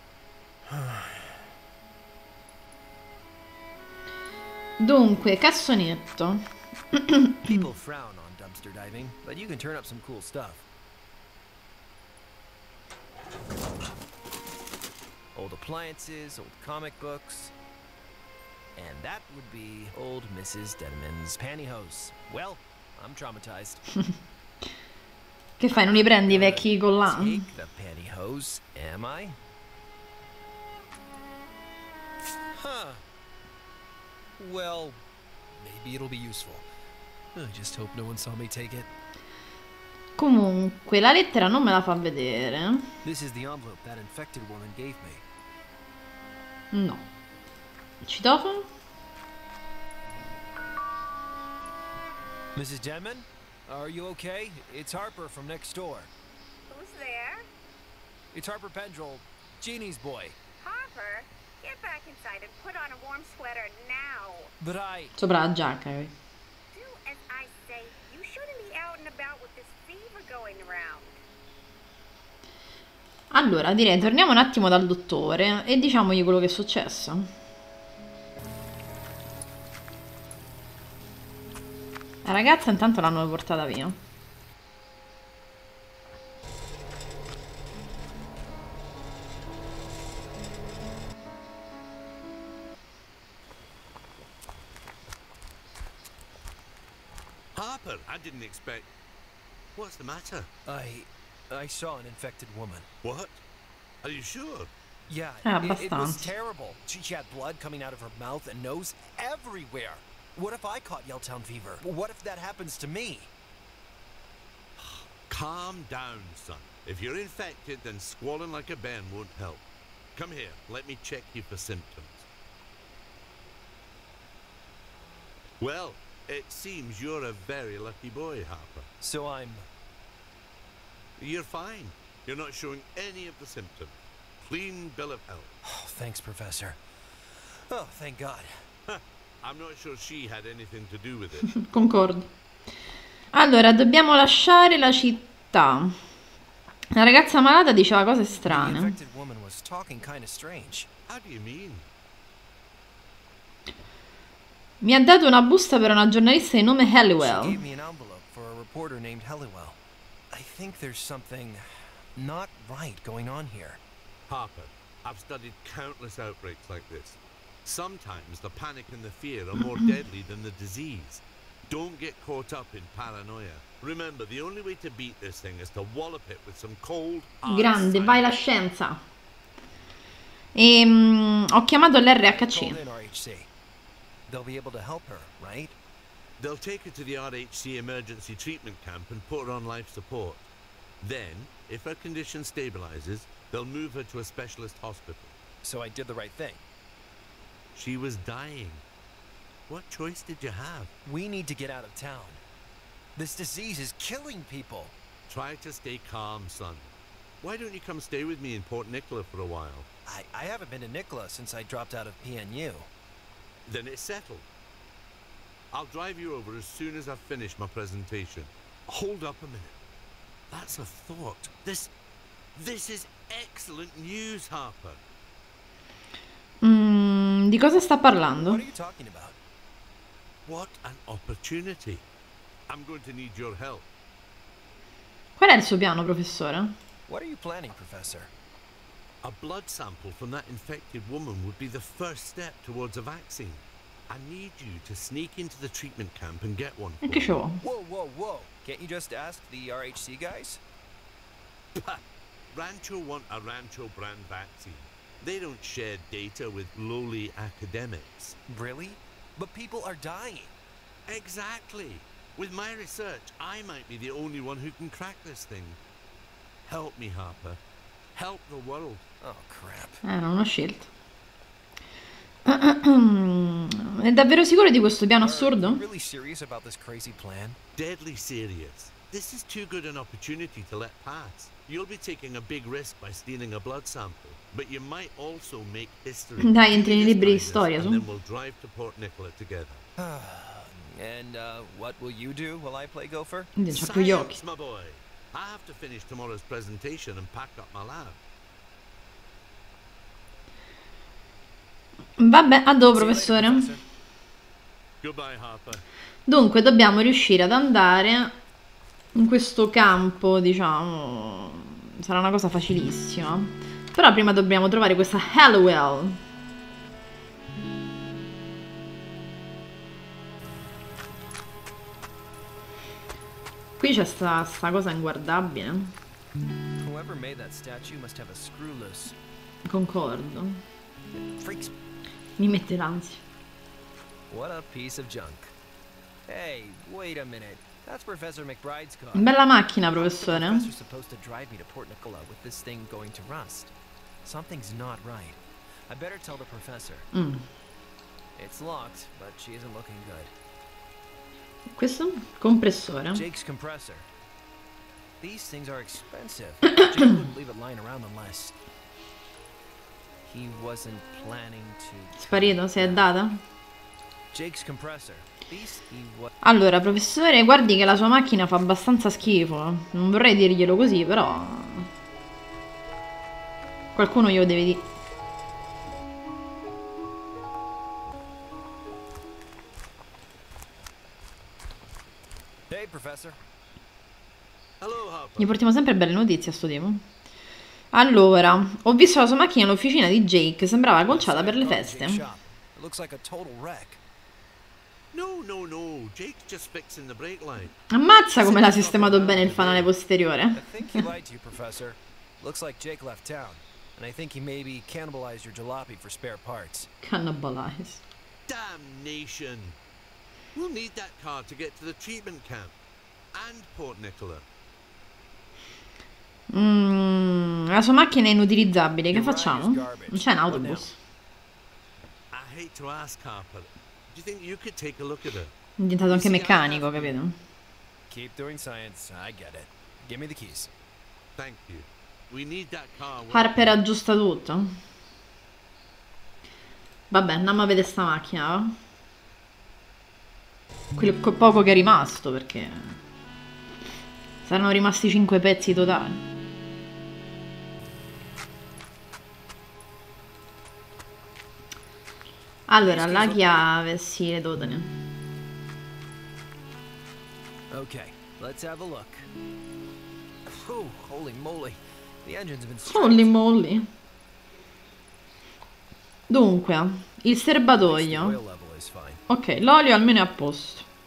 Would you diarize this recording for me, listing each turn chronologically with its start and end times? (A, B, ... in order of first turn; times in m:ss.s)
0:00.7-0:01.4 A
0:04.8-0:06.4 B
0:06.9-0:07.6 B
0:07.5-0:10.6 A
0:15.3-0:17.5 A
0:18.8-0:23.8 A
0:25.6-0:27.4 B
0:25.8-0:29.4 A
0:32.5-0:33.0 A
0:34.4-0:35.0 A
0:35.6-0:36.6 A
0:37.3-0:38.9 A
0:40.2-0:42.8 B
0:43.0-0:45.2 A
0:46.7-0:47.0 B
0:48.0-0:48.7 B
0:52.5-0:56.1 A
0:56.7-0:57.4 C
0:58.3-1:00.4 A
1:00.6-1:04.5 C
1:04.6-1:05.1 A
1:05.2-1:06.1 B
1:06.7-1:11.2 C
1:13.3-1:17.3 B
1:22.2-1:24.0 B
1:37.5-1:38.9 D
1:39.8-1:40.5 D
1:40.6-1:42.9 A
1:43.0-1:43.4 D
1:44.0-1:44.7 D
1:45.1-1:53.3 A
1:45.4-1:46.3 B
1:54.8-1:59.6 D
2:00.2-2:02.3 D
2:05.6-2:08.9 D
2:09.0-2:09.6 A
2:11.2-2:15.5 D
2:15.6-2:18.6 A
2:18.9-2:21.6 D
2:21.5-2:22.3 B
2:23.3-2:25.9 B
2:26.9-2:28.9 B
2:28.4-2:30.9 A
2:31.1-2:31.8 D
2:34.8-2:37.6 B
2:37.2-2:39.8 A
2:40.3-2:43.8 A
2:44.3-2:58.4 D
2:57.5-2:59.0 B
3:00.5-3:02.8 B
3:02.2-3:03.5 A
3:04.3-3:05.8 A
3:06.4-3:10.5 D
3:11.0-3:15.4 D
3:15.6-3:16.6 A
3:17.7-3:18.8 D
3:19.7-3:20.9 D
3:21.0-3:22.4 A
3:23.2-3:24.9 A
3:25.3-3:29.9 D
3:30.0-3:32.9 A
3:33.6-3:34.4 D
3:35.7-3:39.8 D
3:40.5-3:41.9 D
3:42.5-3:45.0 D
3:46.6-3:48.6 B
3:48.3-3:49.4 A
3:50.4-3:52.0 D
3:52.7-3:53.8 D
3:55.4-3:56.7 B
3:57.1-3:58.3 A
3:59.2-4:07.2 D
4:07.0-4:07.6 B
4:07.6-4:10.6 A
4:11.8-4:12.0 D
4:12.5-4:18.4 D
4:18.5-4:20.5 A
4:21.1-4:25.8 D
4:26.7-4:27.6 D
4:28.1-4:29.0 D
4:29.2-4:30.0 A
4:30.0-4:30.9 B
4:32.4-4:35.8 B
4:35.2-4:37.6 A
4:37.7-4:49.8 D
4:46.4-4:48.0 B
4:50.0-4:53.5 A
4:53.6-4:54.4 B
4:53.7-4:58.2 D
5:02.2-5:03.7 B
5:02.9-5:03.8 A
5:05.0-5:05.8 D
5:06.3-5:08.3 B
5:09.2-5:16.2 B
5:23.8-5:25.9 B
5:26.8-5:29.1 A
5:29.7-5:30.6 B
5:31.2-5:31.7 A
5:32.4-5:33.2 B
5:34.3-5:35.5 A
5:36.3-5:39.3 A
5:39.1-5:40.7 B
5:39.9-5:43.7 A
5:44.2-5:47.1 A
5:47.1-5:47.4 B
5:48.4-5:50.3 A
5:51.7-5:53.2 B
5:53.1-5:54.0 A
5:55.2-5:58.5 A
6:00.2-6:03.0 A
6:02.2-6:03.4 B
6:04.3-6:06.3 A
6:06.4-6:11.9 B
6:13.9-6:14.8 B
6:22.7-6:23.4 A
6:24.8-6:25.5 D
6:25.4-6:27.0 B
6:27.9-6:32.2 B
6:31.1-6:34.0 A
6:35.1-6:37.8 D
6:37.9-6:41.0 B
6:38.4-6:39.8 D
6:38.8-6:39.8 A
6:40.5-6:46.9 A
6:47.0-6:48.0 B
6:48.5-6:49.7 D
6:50.5-6:52.7 D
6:53.3-6:54.4 D
6:56.5-7:01.0 B
6:59.1-7:00.9 A
7:02.3-7:05.5 D
7:05.8-7:07.3 B
7:06.1-7:07.2 A
7:08.1-7:10.7 A
7:11.4-7:13.8 D
7:13.3-7:14.8 B
7:17.1-7:18.7 B
7:21.0-7:23.0 B
7:24.4-7:26.2 B
7:32.7-7:34.9 B
7:32.8-7:33.6 A
7:37.7-7:39.3 A
7:40.4-7:43.3 A
7:42.8-7:43.9 B
7:46.3-7:48.4 B
7:47.8-7:49.2 A
7:49.3-7:50.8 B